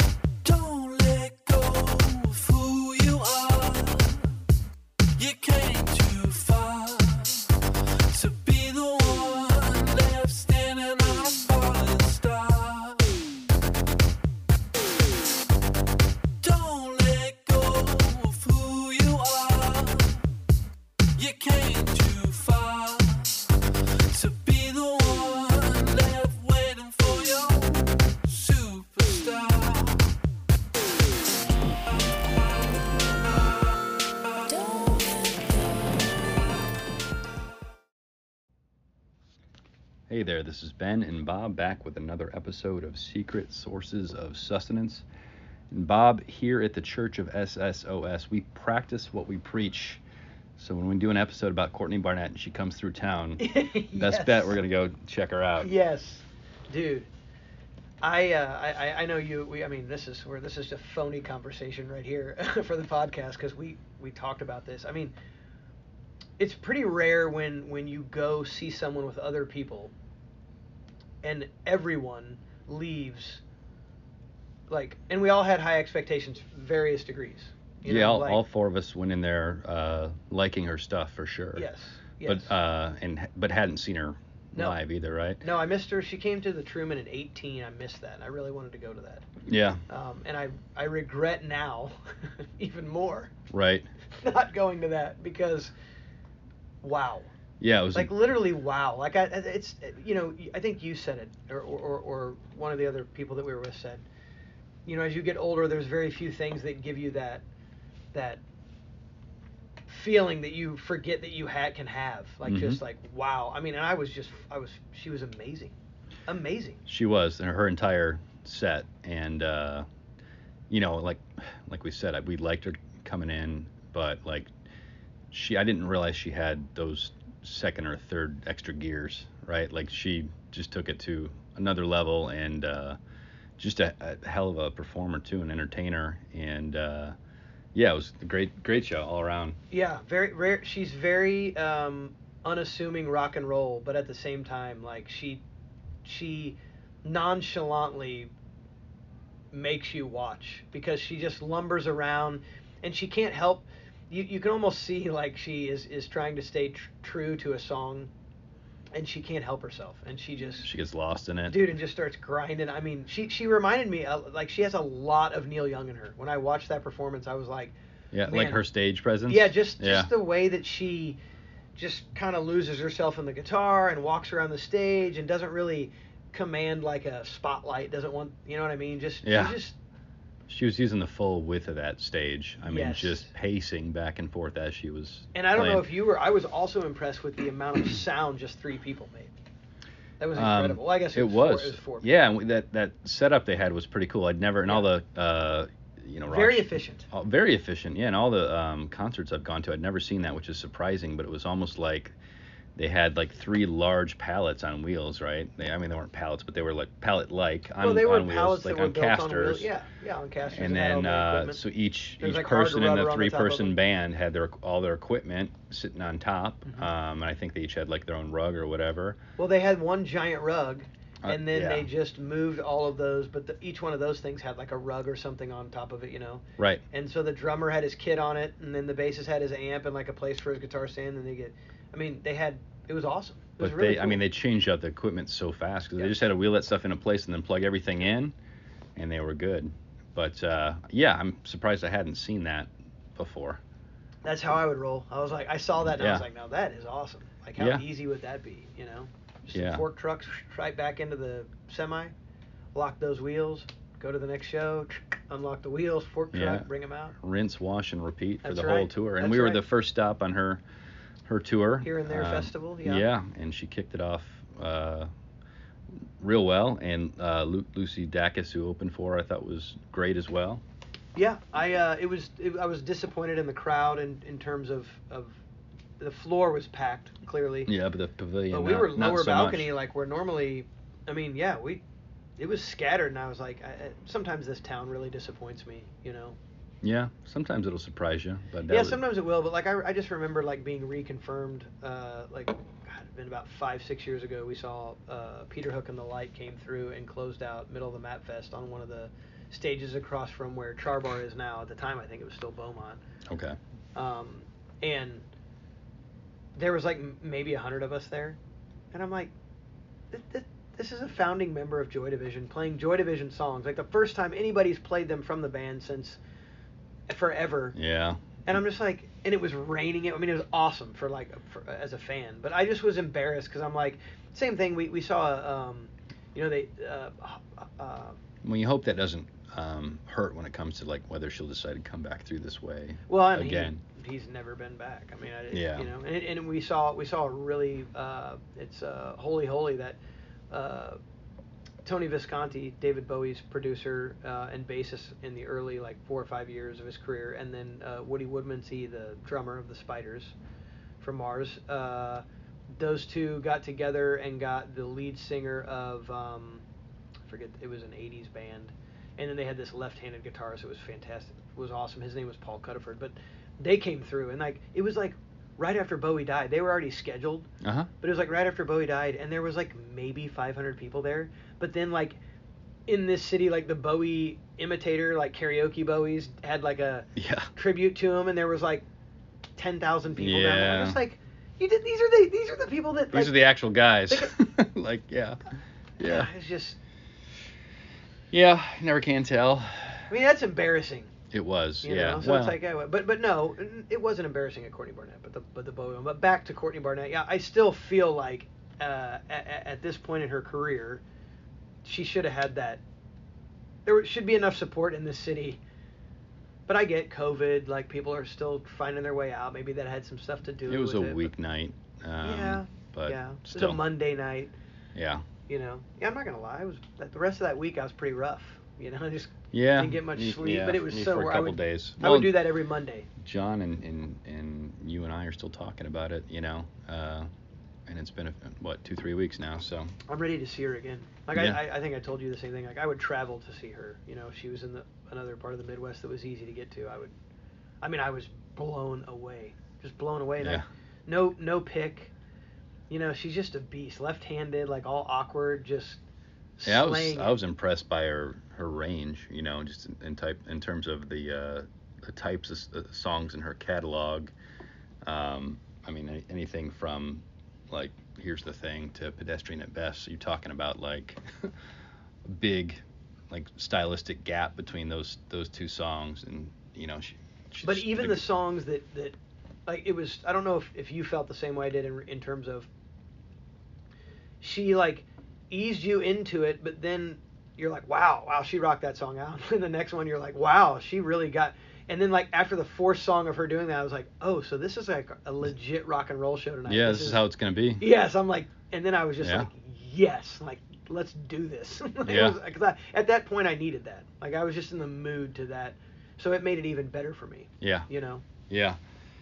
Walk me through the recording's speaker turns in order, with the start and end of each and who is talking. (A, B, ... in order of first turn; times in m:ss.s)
0:00.4-0:04.3 A
0:05.2-0:07.5 A
0:08.1-0:13.2 A
0:16.4-0:20.3 A
0:21.2-0:23.5 A
0:24.0-0:30.1 A
0:32.4-0:32.8 A
0:34.5-0:35.5 A
0:40.1-0:45.0 B
0:45.7-0:50.0 B
0:50.6-0:55.7 B
0:53.4-0:54.6 C
0:55.6-0:57.1 C
0:58.0-1:05.1 C
1:06.4-1:09.9 C
1:11.2-1:13.4 C
1:14.7-1:18.4 C
1:17.8-1:21.7 B
1:21.6-1:22.6 C
1:22.2-1:25.4 B
1:25.4-1:29.3 C
1:29.4-1:29.8 B
1:29.9-1:33.3 C
1:33.5-1:33.9 B
1:34.2-1:35.7 C
1:36.8-1:37.3 C
1:37.6-1:38.1 B
1:37.9-1:44.0 C
1:44.9-1:47.4 C
1:48.1-1:48.4 C
1:49.9-1:55.7 C
1:52.4-1:52.8 B
1:56.3-1:56.8 C
1:56.9-1:59.9 B
2:00.7-2:04.5 B
2:05.3-2:13.0 B
2:13.6-2:17.2 B
2:17.7-2:19.6 B
2:19.7-2:25.4 C
2:26.0-2:28.3 C
2:29.5-2:38.1 C
2:38.9-2:40.7 C
2:40.6-2:41.6 B
2:41.5-2:47.7 C
2:48.1-2:50.1 B
2:48.2-2:48.6 C
2:49.3-2:51.2 C
2:51.8-2:59.8 C
2:59.2-2:59.6 B
3:00.5-3:05.9 B
3:02.6-3:03.3 C
3:05.3-3:09.3 C
3:10.2-3:12.1 C
3:10.4-3:22.2 B
3:16.3-3:17.1 C
3:22.8-3:29.7 B
3:27.8-3:31.6 C
3:30.5-3:39.2 B
3:32.2-3:33.8 C
3:39.4-3:54.2 C
3:41.2-3:41.9 B
3:46.6-3:46.8 B
3:53.6-3:58.3 B
3:59.0-4:03.6 B
4:04.2-4:12.1 C
4:05.8-4:06.3 B
4:07.6-4:07.8 B
4:09.5-4:09.8 B
4:12.7-4:17.2 C
4:16.3-4:16.7 B
4:17.2-4:20.6 B
4:18.4-4:19.6 C
4:21.3-4:25.1 B
4:21.8-4:23.0 C
4:26.2-4:30.6 B
4:31.2-4:35.4 C
4:36.0-4:37.7 C
4:37.7-4:39.7 B
4:38.5-4:41.8 C
4:42.4-4:46.4 C
4:46.8-4:49.0 B
4:48.7-5:03.0 C
5:03.3-5:03.6 B
5:04.0-5:05.2 C
5:06.6-5:08.4 C
5:08.9-5:09.3 C
5:10.1-5:16.2 C
5:17.1-5:17.8 C
5:17.7-5:18.4 B
5:18.5-5:28.2 C
5:28.4-5:33.8 B
5:33.1-5:40.0 C
5:35.5-5:35.9 B
5:40.5-5:41.0 C
5:41.8-5:50.3 C
5:51.0-5:52.2 C
5:52.8-5:56.6 C
5:57.3-6:07.5 C
6:07.6-6:07.9 B
6:08.0-6:12.2 C
6:12.9-6:18.8 C
6:17.2-6:17.5 B
6:19.6-6:23.4 C
6:20.2-6:21.0 B
6:23.1-6:25.4 B
6:26.0-6:26.3 B
6:26.0-6:26.8 C
6:28.3-6:30.1 B
6:30.1-6:31.1 C
6:31.3-6:32.6 B
6:31.8-6:41.0 C
6:41.8-6:42.8 C
6:43.9-6:45.6 C
6:46.7-6:51.3 C
6:50.7-6:53.8 B
6:52.2-6:54.5 C
6:55.0-6:55.2 B
6:55.5-7:03.1 C
6:59.5-7:02.4 B
7:03.2-7:07.3 B
7:07.9-7:09.9 B
7:10.1-7:17.2 C
7:17.8-7:22.1 C
7:20.4-7:20.6 B
7:22.9-7:26.0 C
7:26.6-7:27.4 C
7:26.6-7:34.3 B
7:35.0-7:41.5 B
7:42.2-7:48.3 B
7:47.6-7:49.2 C
7:49.7-7:52.7 C
7:54.4-8:07.2 C
8:06.7-8:07.8 B
8:07.8-8:18.2 C
8:09.2-8:09.5 B
8:12.0-8:12.4 B
8:17.6-8:17.9 B
8:18.5-8:18.8 B